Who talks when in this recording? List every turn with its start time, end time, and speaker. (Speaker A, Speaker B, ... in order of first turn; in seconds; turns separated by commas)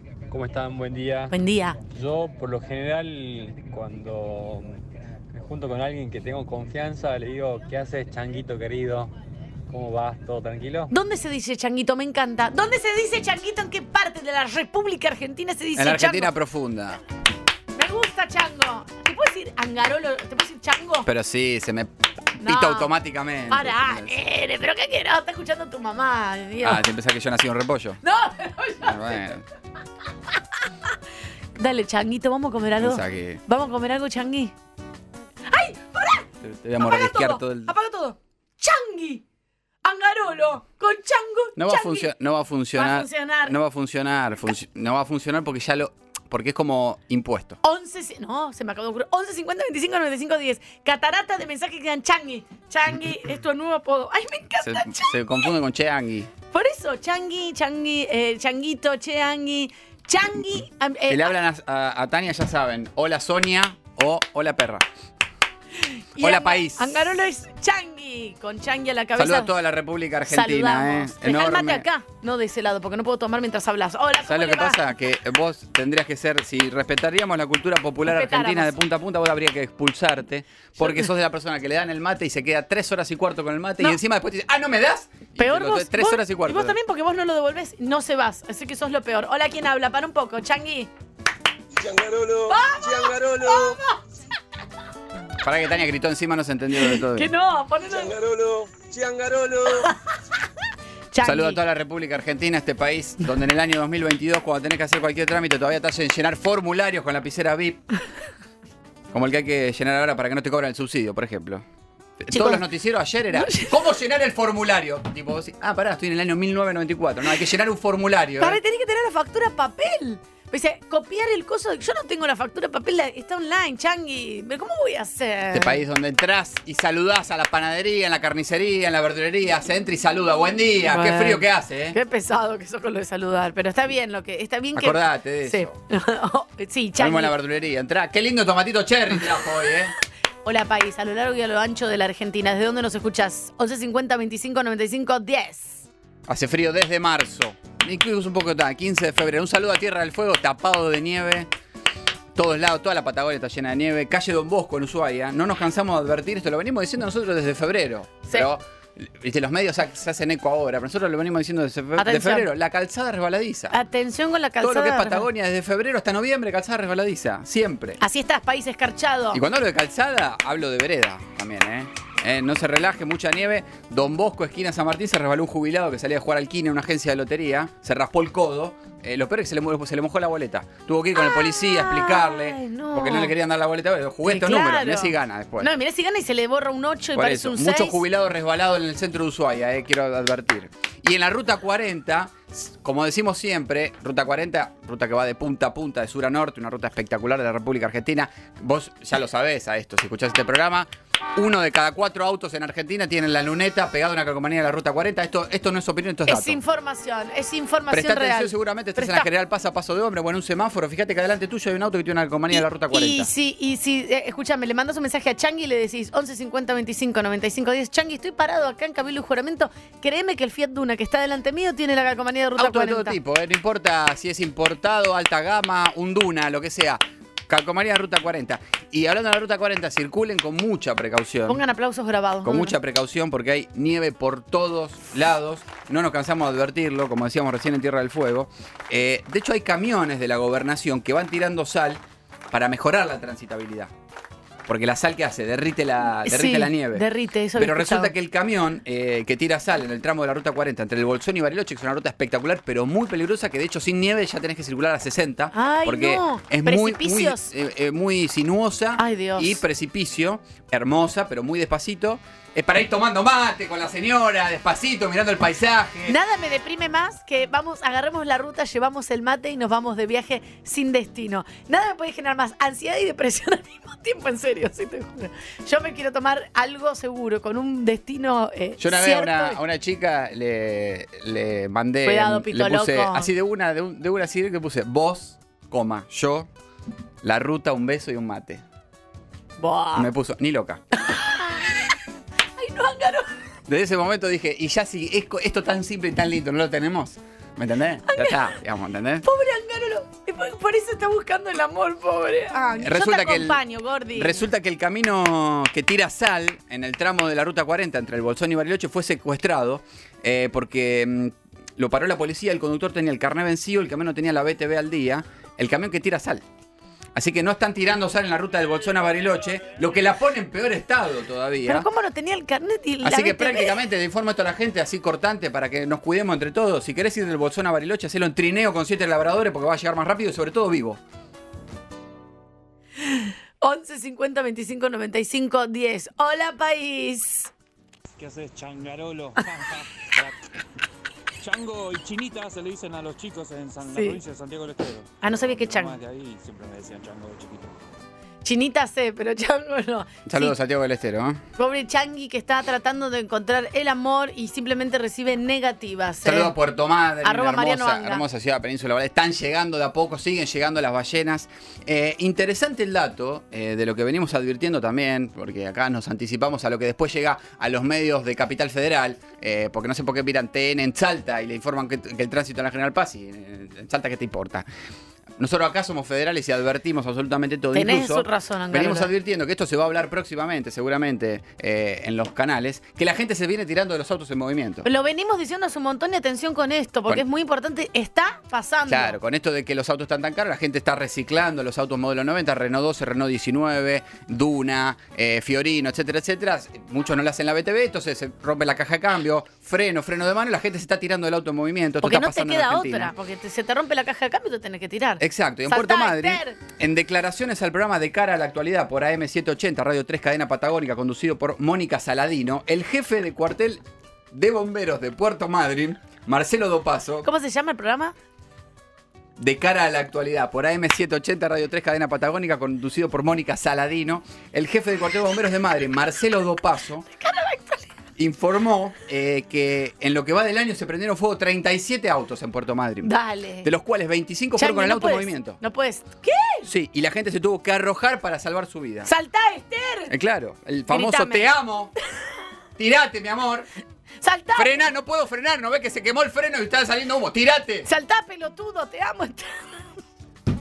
Speaker A: 0.3-1.3, Speaker B: 1.3-1.8, Speaker A: 1.9-9.1, Speaker A: 9.7-10.9, Speaker B: 10.9-16.3, Speaker C: 15.8-17.0, Speaker B: 17.7-21.1, Speaker C: 21.1-24.2, Speaker B: 22.4-22.9, Speaker B: 23.5-26.8, Speaker C: 26.6-28.0, Speaker B: 28.0-29.2, Speaker C: 28.8-29.4, Speaker B: 31.6-34.5, Speaker C: 32.8-33.4, Speaker B: 35.5-36.3, Speaker C: 36.4-37.7, Speaker B: 36.8-39.2, Speaker B: 39.8-42.1, Speaker C: 41.6-47.6, Speaker B: 42.8-43.5, Speaker B: 47.6-55.5, Speaker C: 54.6-56.3, Speaker B: 56.5-61.4, Speaker C: 61.1-64.8, Speaker B: 66.2-69.5, Speaker C: 66.2-67.1, Speaker C: 69.2-71.9, Speaker B: 70.3-74.8, Speaker C: 74.2-86.8, Speaker B: 78.1-78.8, Speaker B: 85.4-90.9, Speaker D: 91.8-93.8, Speaker B: 92.5-94.0, Speaker C: 95.4-97.3, Speaker B: 96.8-98.1, Speaker D: 97.9-99.9, Speaker B: 101.1-101.6, Speaker C: 101.2-107.8, Speaker C: 109.1-111.7, Speaker C: 112.2-118.6, Speaker B: 112.3-112.6, Speaker B: 113.3-113.8, Speaker B: 118.4-125.8, Speaker C: 125.5-132.0, Speaker B: 130.9-137.3, Speaker C: 134.8-135.8, Speaker C: 137.0-139.9, Speaker B: 140.4-145.8, Speaker C: 146.3-151.5, Speaker C: 152.3-163.8, Speaker B: 162.0-162.5, Speaker B: 163.7-165.3, Speaker C: 164.6-168.0, Speaker B: 168.0-169.4, Speaker C: 169.3-185.7, Speaker B: 181.2-183.3, Speaker B: 184.2-188.0, Speaker C: 187.2-206.6, Speaker B: 206.3-209.3, Speaker C: 207.9-213.3, Speaker B: 212.5-223.2, Speaker C: 222.6-231.6, Speaker B: 231.5-232.8, Speaker C: 232.4-243.9, Speaker C: 244.7-266.2, Speaker B: 246.3-248.1, Speaker B: 255.5-257.5, Speaker B: 259.0-259.6, Speaker B: 266.1-279.6, Speaker C: 278.8-286.5, Speaker B: 282.1-283.3, Speaker C: 287.2-288.6, Speaker B: 289.6-290.1, Speaker C: 289.9-290.8, Speaker B: 290.9-292.0, Speaker B: 292.6-293.3, Speaker C: 293.7-299.3, Speaker B: 298.1-298.5, Speaker B: 299.2-304.4, Speaker C: 302.5-303.6, Speaker C: 304.1-316.4, Speaker C: 317.1-321.9, Speaker B: 321.7-323.8, Speaker C: 323.0-331.0, Speaker B: 333.0-337.5, Speaker E: 338.2-340.4, Speaker E: 341.4-347.8, Speaker B: 343.9-344.2, Speaker B: 345.2-346.0, Speaker B: 348.4-350.6, Speaker C: 350.3-351.4, Speaker B: 351.6-356.5, Speaker C: 356.2-374.7, Speaker B: 357.2-358.2, Speaker C: 375.4-384.9, Speaker B: 377.7-379.1, Speaker B: 384.9-389.2, Speaker C: 388.9-403.1, Speaker B: 402.0-406.6, Speaker C: 405.2-417.3, Speaker B: 417.2-418.1, Speaker C: 419.4-427.1, Speaker B: 427.1-427.9, Speaker C: 428.2-433.1, Speaker B: 433.0-433.7, Speaker C: 433.6-435.6, Speaker B: 434.6-436.7, Speaker C: 436.7-439.1, Speaker B: 439.1-440.1, Speaker C: 440.1-441.9, Speaker B: 440.9-441.5, Speaker C: 442.8-443.7, Speaker B: 444.2-444.9, Speaker C: 444.6-447.9, Speaker B: 447.9-449.9